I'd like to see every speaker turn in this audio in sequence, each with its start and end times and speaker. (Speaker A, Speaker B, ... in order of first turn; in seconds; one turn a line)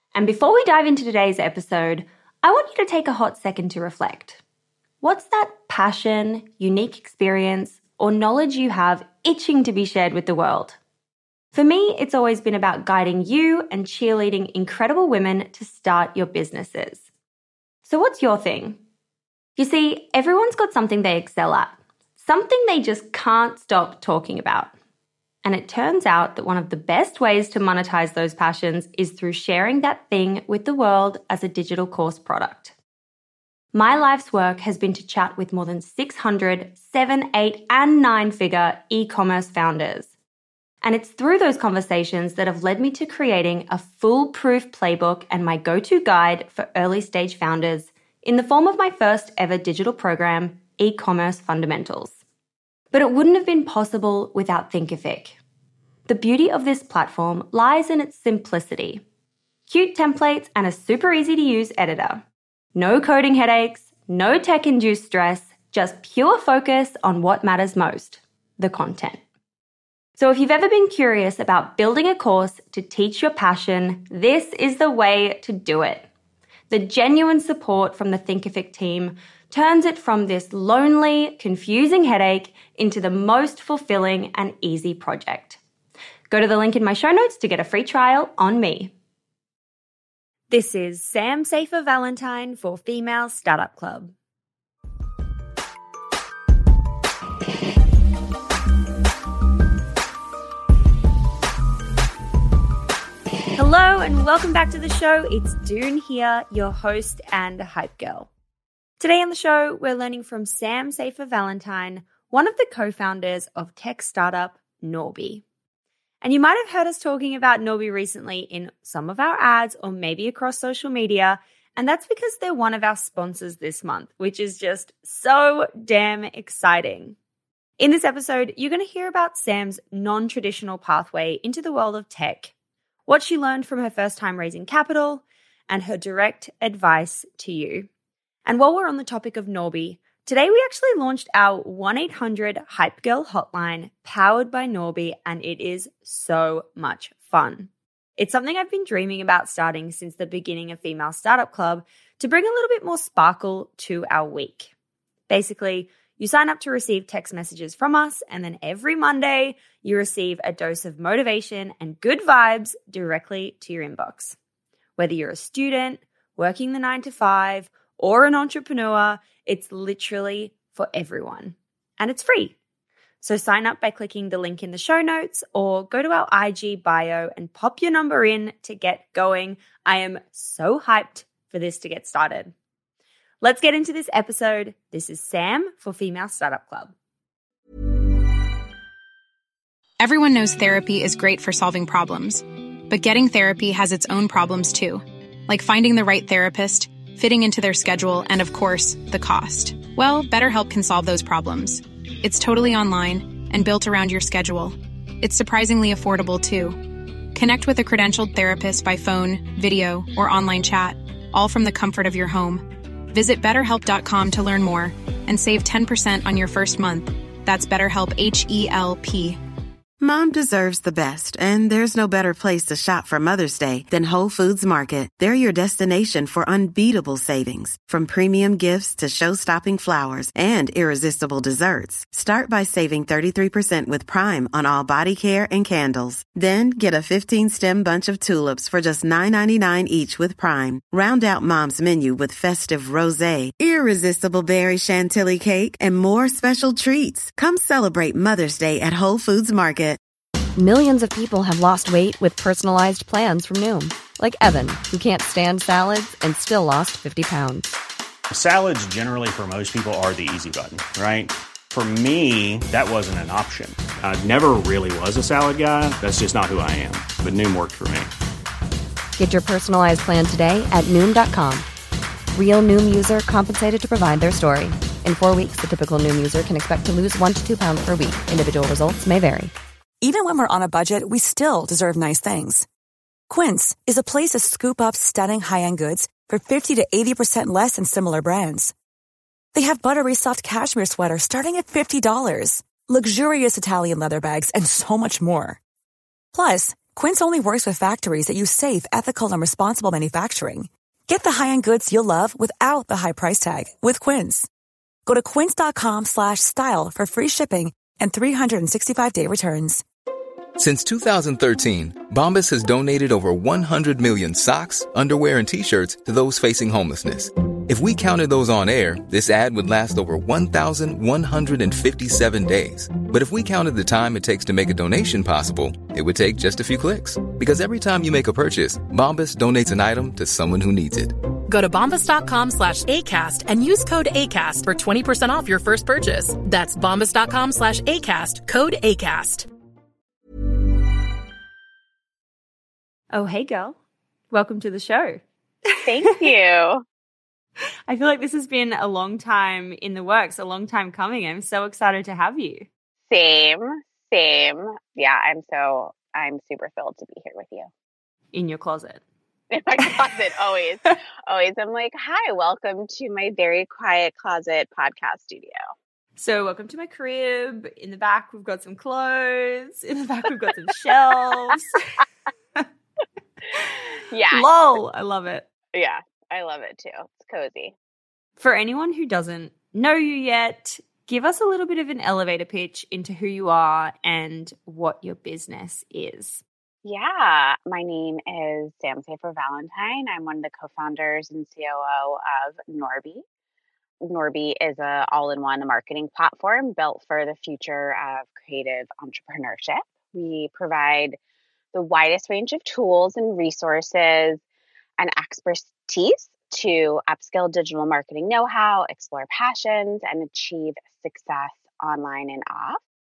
Speaker A: 0.1-4.4
Speaker A: 5.0-10.8
Speaker A: 11.5-17.0
Speaker A: 17.9-18.8
Speaker A: 19.6-24.7
Speaker A: 25.4-32.7
Speaker A: 33.7-40.1
Speaker A: 40.8-52.2
Speaker A: 52.9-55.4
Speaker A: 56.1-59.0
Speaker A: 59.7-62.2
Speaker A: 62.8-69.2
Speaker A: 70.2-76.1
Speaker A: 76.7-85.6
Speaker A: 86.3-88.9
Speaker A: 90.5-94.1
Speaker A: 103.6-108.3
Speaker A: 109.0-115.4
Speaker A: 116.2-127.2
Speaker A: 127.8-132.5
Speaker A: 133.1-137.9
Speaker A: 138.4-154.7
Speaker A: 155.3-164.4
Speaker A: 165.0-172.6
Speaker A: 173.2-182.5
Speaker A: 183.4-186.9
Speaker B: 190.0-219.4
Speaker C: 220.0-250.0
Speaker D: 250.6-257.8
Speaker E: 258.3-268.1
Speaker D: 269.2-271.7
Speaker D: 272.3-279.5
Speaker F: 280.0-282.7
Speaker F: 283.3-288.7
Speaker F: 289.5-295.6
Speaker F: 296.3-304.5
Speaker F: 305.1-309.8
Speaker G: 310.6-331.1
Speaker H: 331.5-339.5
Speaker A: 343.1-343.8
Speaker A: 344.3-345.8
Speaker I: 345.9-346.8
Speaker A: 347.9-352.7
Speaker I: 353.1-357.7
Speaker A: 358.3-359.0
Speaker I: 359.5-365.6
Speaker A: 366.2-371.8
Speaker I: 374.1-374.5
Speaker A: 374.3-375.4
Speaker I: 375.7-377.7
Speaker A: 378.4-386.4
Speaker I: 386.8-393.2
Speaker I: 394.0-401.2
Speaker I: 401.7-404.4
Speaker I: 405.0-412.8